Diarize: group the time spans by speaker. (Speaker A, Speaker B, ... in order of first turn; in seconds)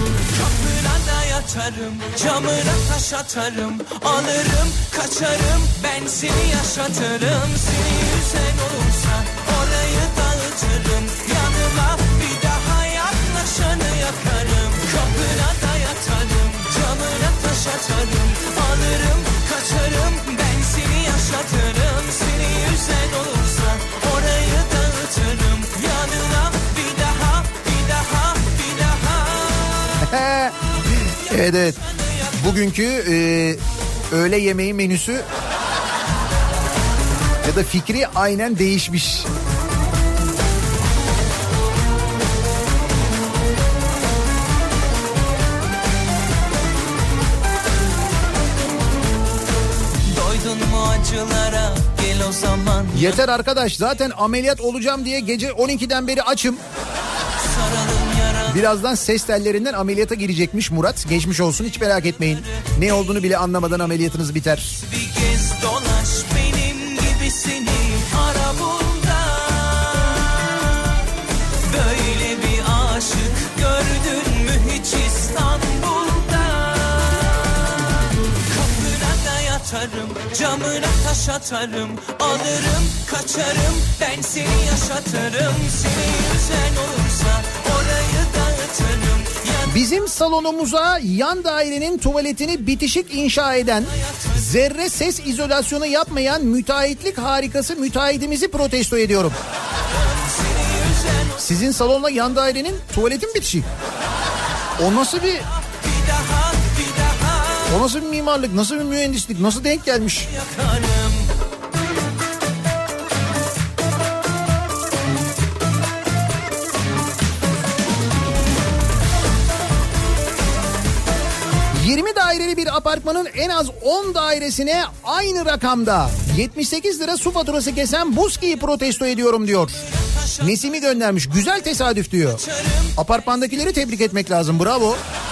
Speaker A: 0.3-30.0, 31.3-32.4, 50.1-53.2, 57.4-58.6, 64.8-70.7, 71.7-77.8, 78.5-89.7, 99.9-101.4, 105.8-107.7, 110.3-111.3, 130.0-130.4, 132.4-132.9
Speaker B: 30.0-30.5, 31.3-31.8, 32.4-35.2, 37.4-39.3, 52.9-56.6, 58.5-64.8, 89.7-99.4, 101.4-103.7, 104.8-105.5, 107.7-110.3, 121.7-129.8, 130.4-132.4, 132.9-135.0